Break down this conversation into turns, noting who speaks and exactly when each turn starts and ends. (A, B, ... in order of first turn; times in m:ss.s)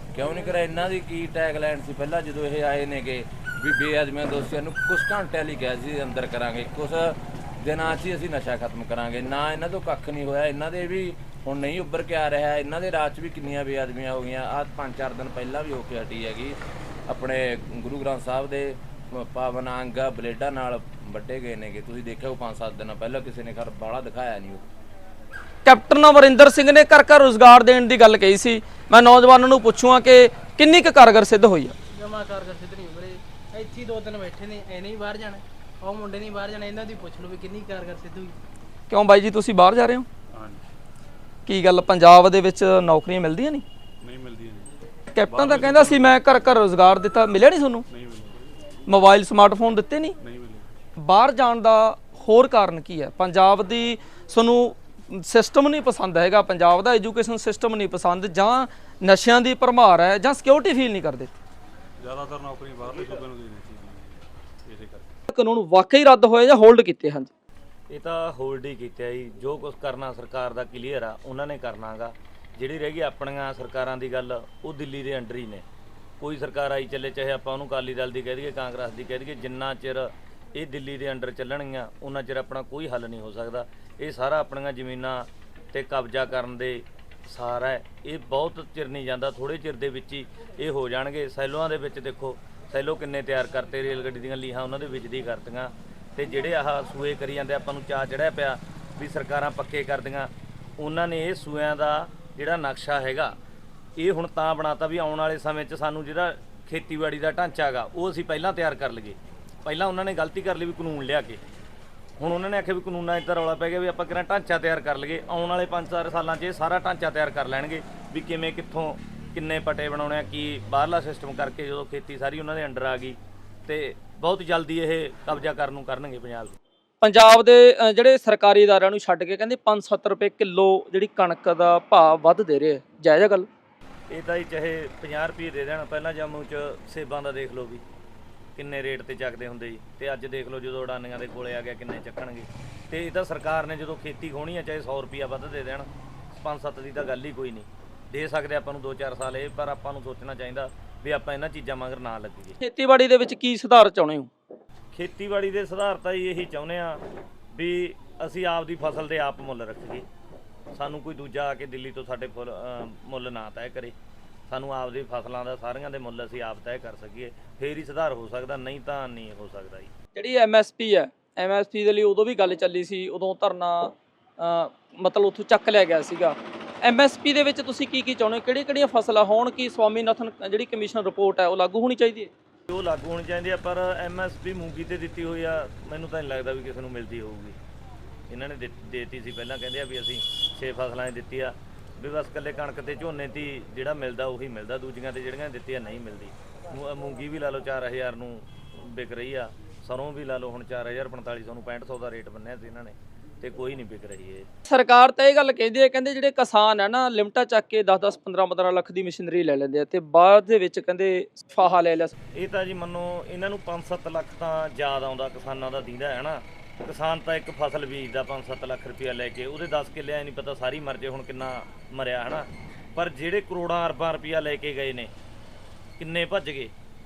0:00.1-0:16.6 A
0:17.1-0:24.7 A
0:25.6-0:31.8 B
0:32.0-0:38.4 C
0:38.9-0:40.1 B
0:40.3-0:40.6 D
0:41.5-0:43.6 B
0:44.0-0:46.2 D
0:45.2-0:47.8 B
0:47.9-0:48.5 D
0:48.9-0:50.2 B
0:50.2-0:50.7 D
0:51.0-1:01.4 B
1:02.0-1:05.1 D
1:05.3-1:07.3 B
1:07.9-1:15.6 E
1:16.2-1:43.3 E
1:44.0-1:51.4 E
1:52.2-2:06.6 E
2:07.0-2:13.5 B
2:14.1-2:17.8 E
2:18.6-2:32.6 E
2:32.6-2:34.3 B
2:34.9-2:37.0 E
2:37.5-2:40.1 E
2:40.8-2:44.0 E
2:44.5-2:49.9 E
2:50.2-3:02.3 B
3:02.7-3:07.6 E
3:08.3-3:24.5 E
3:24.7-3:32.1 B
3:32.3-3:45.1 E
3:46.0-3:46.7 E